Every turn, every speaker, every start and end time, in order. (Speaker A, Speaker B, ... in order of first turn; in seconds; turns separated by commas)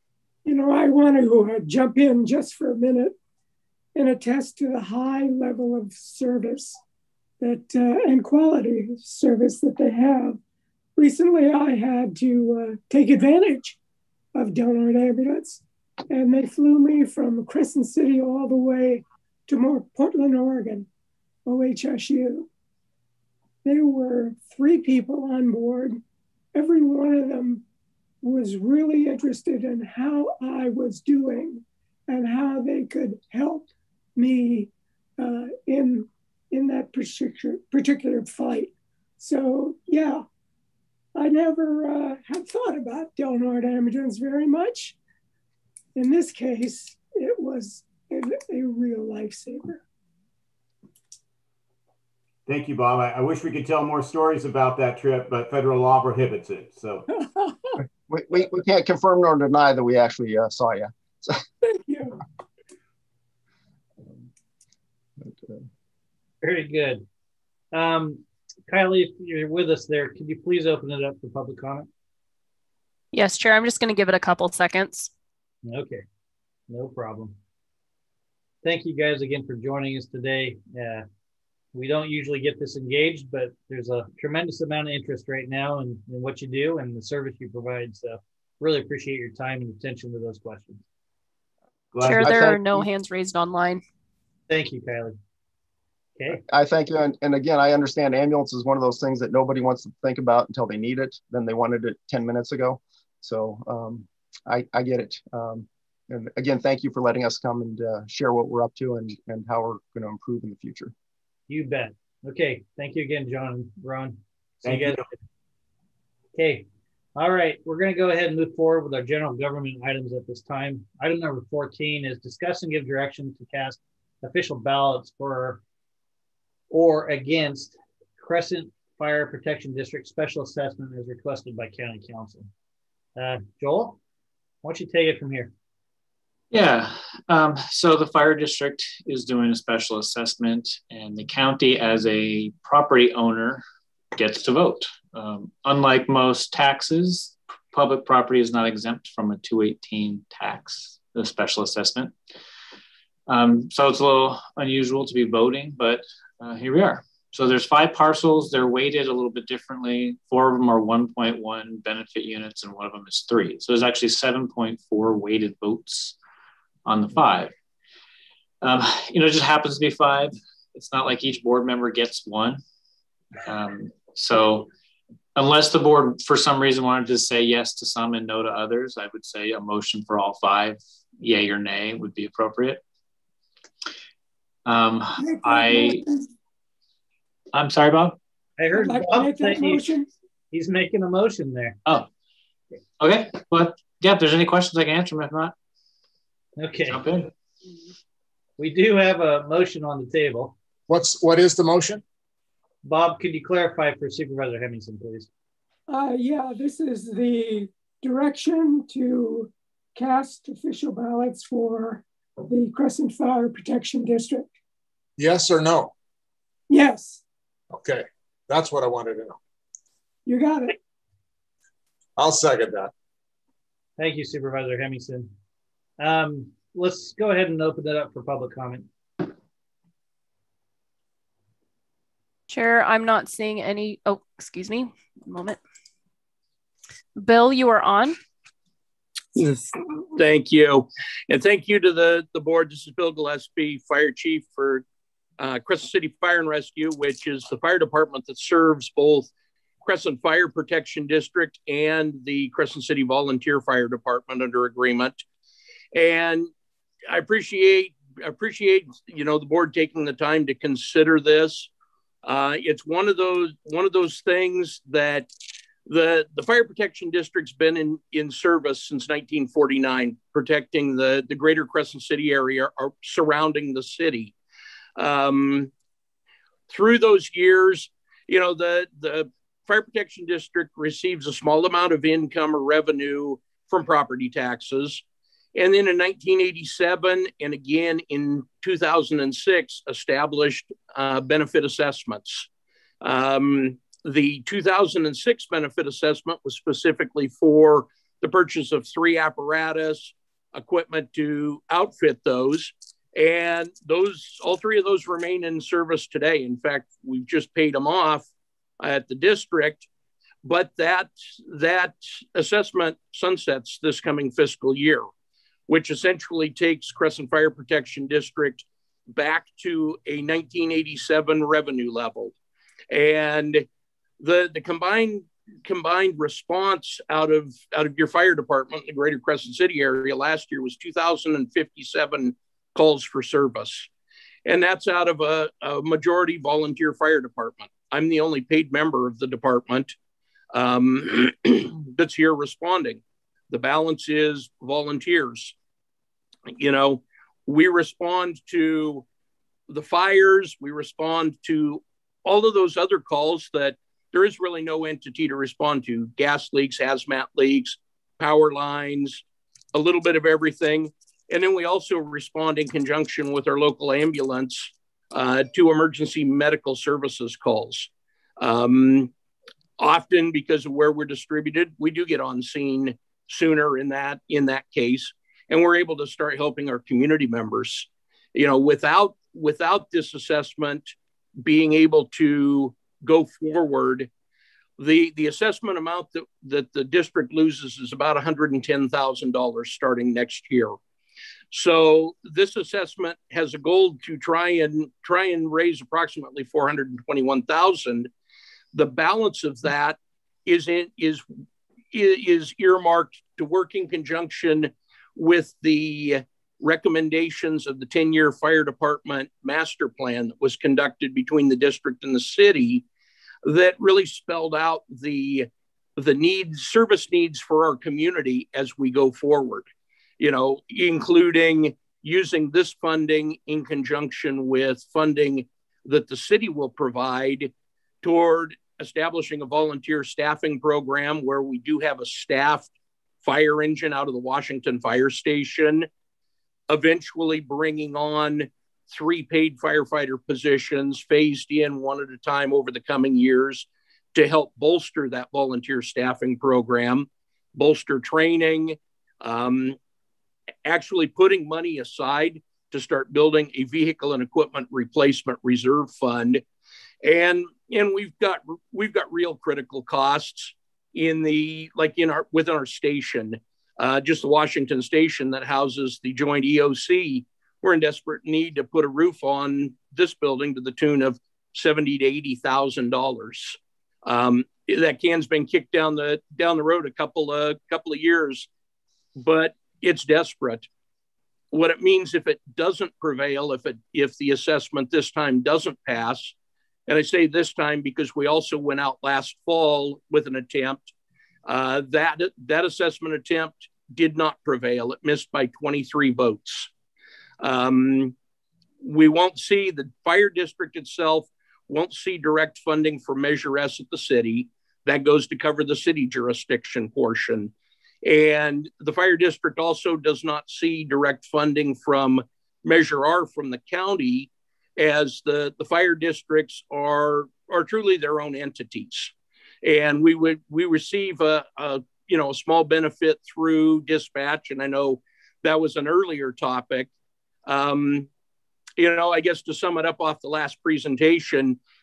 Speaker A: 0.4-3.2, Speaker A: 3.9-6.8, Speaker A: 7.4-10.4, Speaker A: 11.0-13.8, Speaker A: 14.3-20.9, Speaker A: 21.4-22.5, Speaker A: 23.6-26.0, Speaker A: 26.5-27.6, Speaker A: 28.2-40.2, Speaker A: 41.1-45.0, Speaker A: 45.9-49.8, Speaker B: 52.5-57.0, Speaker A: 57.1-57.8, Speaker C: 58.1-61.4, Speaker A: 61.6-62.2, Speaker C: 65.2-65.7, Speaker D: 66.4-67.0, Speaker D: 67.7-71.9, Speaker E: 73.1-75.1, Speaker D: 75.6-76.0, Speaker D: 76.7-77.4, Speaker D: 78.6-81.0, Speaker D: 81.7-90.8, Speaker B: 91.9-92.6, Speaker E: 92.0-93.8, Speaker C: 92.0-92.8, Speaker D: 94.5-95.2, Speaker C: 96.3-110.9, Speaker D: 111.5-115.1, Speaker B: 114.6-115.1, Speaker D: 116.3-125.6, Speaker D: 126.7-132.5, Speaker D: 133.2-134.0, Speaker D: 134.6-135.5, Speaker F: 136.5-143.6, Speaker F: 144.1-152.2, Speaker F: 153.3-166.1, Speaker F: 166.8-167.5, Speaker F: 168.6-172.6, Speaker F: 173.4-174.7, Speaker F: 175.3-182.8, Speaker F: 184.6-186.0, Speaker A: 185.2-186.3, Speaker F: 187.5-188.2, Speaker D: 188.6-189.9, Speaker A: 188.7-190.1, Speaker D: 190.5-191.8, Speaker F: 193.0-195.5, Speaker D: 196.6-197.1, Speaker F: 196.9-197.3, Speaker D: 198.6-200.5, Speaker G: 200.9-202.0, Speaker D: 202.8-205.3, Speaker A: 205.9-214.5, Speaker G: 215.2-215.9, Speaker A: 216.7-217.2, Speaker G: 217.7-219.4, Speaker A: 220.2-220.8, Speaker G: 222.2-222.9, Speaker D: 224.0-225.3, Speaker D: 226.0-228.9, Speaker E: 232.5-235.6, Speaker E: 237.2-238.2, Speaker H: 239.3-244.8, Speaker H: 245.4-249.3, Speaker H: 249.8-255.2, Speaker H: 255.9-256.5, Speaker H: 257.1-261.7, Speaker H: 262.2-265.3, Speaker H: 265.9-274.3, Speaker H: 275.0-275.7, Speaker H: 276.7-285.0, Speaker H: 285.5-292.5, Speaker H: 293.0-308.3, Speaker H: 308.8-309.9, Speaker H: 310.4-315.1, Speaker H: 315.7-322.3, Speaker H: 322.9-323.7, Speaker H: 324.2-333.9, Speaker H: 334.4-339.9, Speaker H: 340.5-345.6, Speaker H: 346.5-349.0, Speaker H: 349.7-369.1, Speaker H: 369.8-384.1, Speaker H: 384.8-390.8, Speaker H: 391.5-398.1, Speaker H: 398.7-401.2, Speaker H: 401.9-412.8, Speaker H: 413.4-419.7, Speaker H: 420.2-427.5, Speaker H: 428.0-432.7, Speaker H: 433.2-435.9, Speaker H: 436.7-449.8, Speaker H: 450.6-456.4, Speaker H: 457.0-478.5, Speaker H: 479.2-480.7, Speaker H: 481.5-486.3, Speaker H: 486.9-490.9, Speaker H: 491.4-496.7, Speaker H: 497.4-498.1, Speaker H: 498.8-507.5, Speaker H: 508.0-519.1, Speaker H: 519.6-526.9, Speaker H: 527.5-528.1, Speaker H: 528.8-531.6